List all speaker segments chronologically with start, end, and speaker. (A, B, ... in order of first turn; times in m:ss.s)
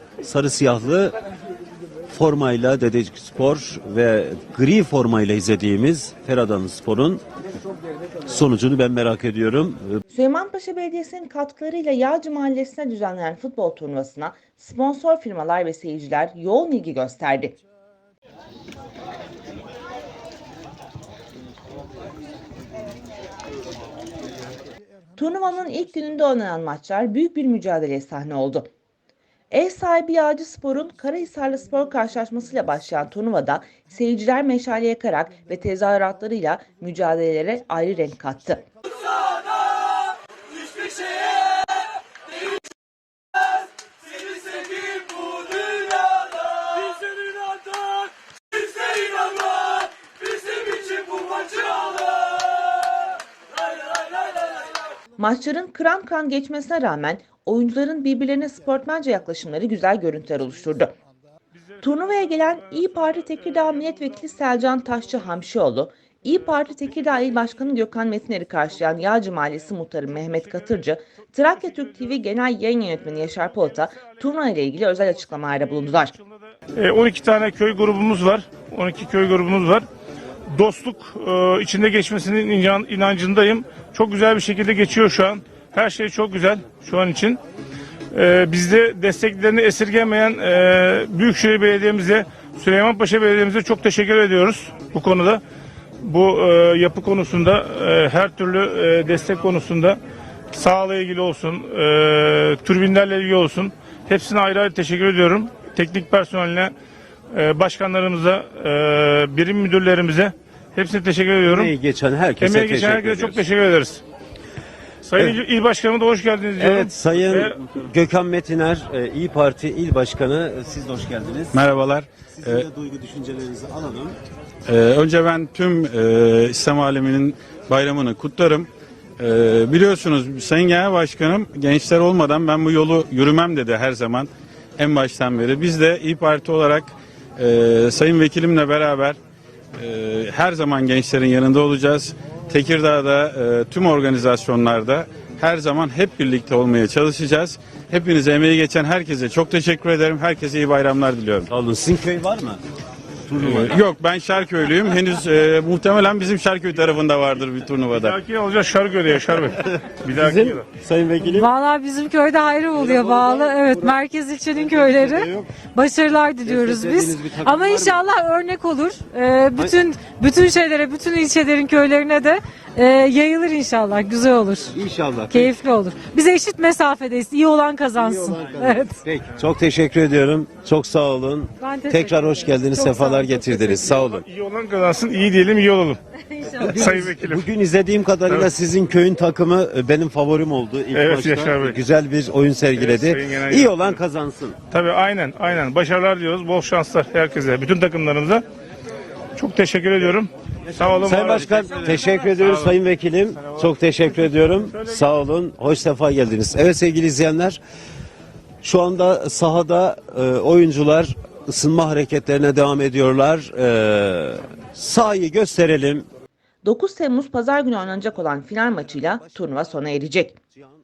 0:00.2-0:01.1 A
0:02.1-0:07.2 A
0:08.2-0:10.0 A
0:10.1-0:17.6 B
0:25.2-0:28.7 B
0:29.5-0:38.6 B
0:55.2-1:00.9 B
1:01.8-1:16.2 B
1:16.8-1:19.9 C
1:20.5-1:27.4 C
1:28.1-1:35.4 C
1:36.0-1:40.0 C
1:40.5-1:46.7 C
1:47.3-1:51.7 C
1:51.4-1:53.4 A
1:52.4-1:54.0 C
1:55.0-1:57.6 C
1:56.6-2:01.7 A
2:01.6-2:02.6 D
2:02.3-2:04.2 A
2:04.7-2:19.2 D
2:19.8-2:31.5 D
2:31.5-2:32.6 A
2:33.3-2:33.8 A
2:33.4-2:38.2 D
2:37.9-2:40.6 C
2:40.1-2:41.5 A
2:41.3-2:54.8 E
2:42.7-2:44.0 A
2:44.6-2:45.5 A
2:46.5-2:48.0 A
2:54.7-2:55.6 A
2:55.3-2:59.0 E
2:58.0-3:04.2 A
3:01.6-3:04.1 E
3:04.0-3:06.0 C
3:06.3-3:06.7 E
3:06.5-3:14.6 A
3:06.7-3:07.4 C
3:10.9-3:11.8 C
3:12.7-3:14.0 C
3:14.7-3:18.4 C
3:19.4-3:22.7 C
3:20.7-3:27.6 A
3:28.6-3:36.0 A
3:36.6-3:40.4 B